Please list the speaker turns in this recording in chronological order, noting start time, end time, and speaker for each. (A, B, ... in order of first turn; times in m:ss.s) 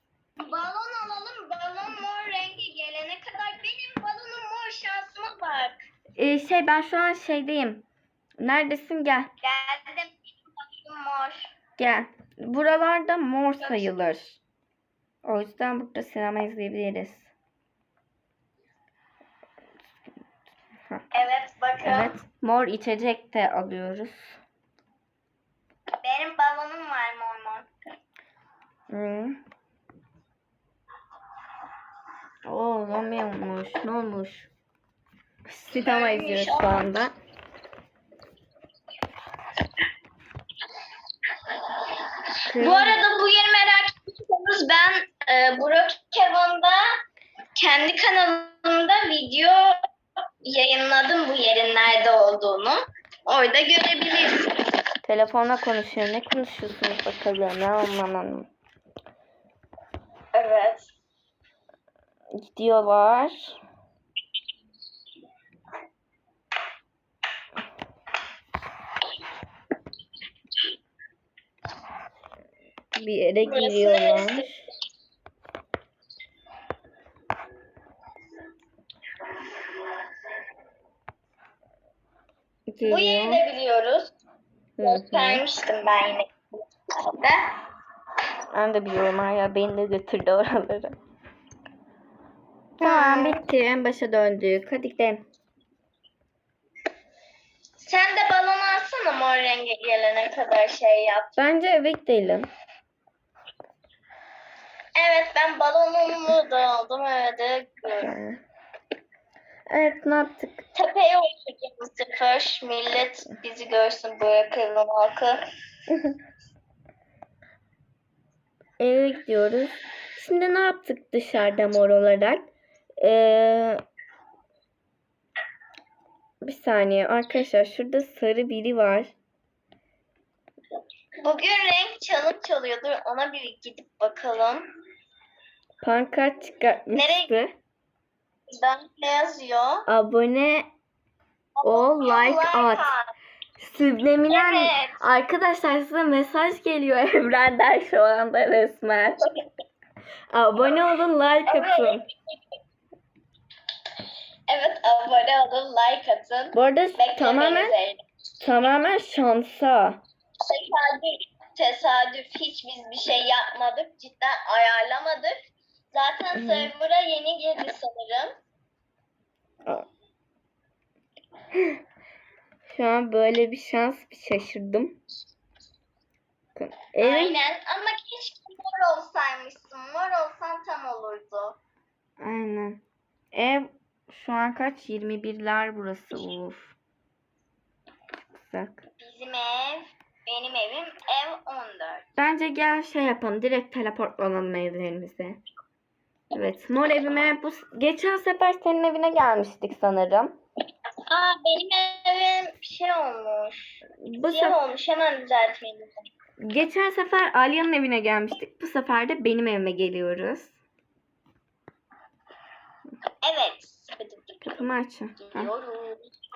0:00.4-0:05.8 A
0:06.2-0:07.8 B
0:08.4-0:09.3 B
0:09.4-0:11.5 A
0:11.8-0:14.4 B
0:13.6-0:13.9 A
0:15.2-0:17.3 B
0:21.1-0:22.2 A
0:21.8-0:24.4 B
0:26.0-0:27.7 A
0:28.9-0:29.4 B
0:32.4-0:34.5 B
0:35.5-0:37.1 B
0:35.8-0:37.0 A
0:41.5-0:46.8 A
0:42.5-0:43.0 B
0:47.6-0:49.7 A
0:50.4-0:54.6 A
0:55.0-0:58.5 B
1:00.3-1:00.9 A
1:02.4-1:03.6 B
1:12.9-1:14.7 B
1:13.4-1:14.5 A
1:22.7-1:23.4 B
1:22.9-1:24.1 A
1:24.8-1:25.4 B
1:24.8-1:26.3 A
1:27.1-1:27.5 A
1:28.5-1:31.0 B
1:32.8-1:35.2 B
1:32.8-1:33.4 A
1:37.8-1:41.4 A
1:41.4-1:42.5 B
1:45.0-1:48.1 A
1:48.0-1:48.4 B
1:49.7-1:50.6 B
1:50.7-1:55.4 A
1:58.8-2:02.5 B
2:03.0-2:03.8 B
2:06.4-2:09.1 B
2:11.2-2:14.6 A
2:15.8-2:17.5 B
2:16.9-2:17.3 A
2:18.5-2:19.8 A
2:19.9-2:20.7 B
2:21.6-2:23.0 A
2:21.6-2:22.9 B
2:23.6-2:29.2 B
2:24.3-2:25.0 A
2:30.3-2:32.0 B
2:31.5-2:32.0 A
2:34.5-2:38.0 A
2:36.5-2:37.7 B
2:38.4-2:40.0 B
2:40.4-2:45.3 A
2:45.9-2:48.3 A
2:46.3-2:46.7 B
2:52.7-2:55.0 B
2:56.6-2:57.4 B
2:57.0-3:01.6 A
3:02.2-3:02.8 B
3:03.3-3:06.7 B
3:08.3-3:08.8 B
3:09.0-3:12.0 A
3:12.2-3:15.4 B
3:16.3-3:20.4 B
3:21.1-3:26.1 A
3:24.0-3:24.6 B
3:26.4-3:30.6 B
3:33.2-3:36.0 A
3:34.4-3:35.5 B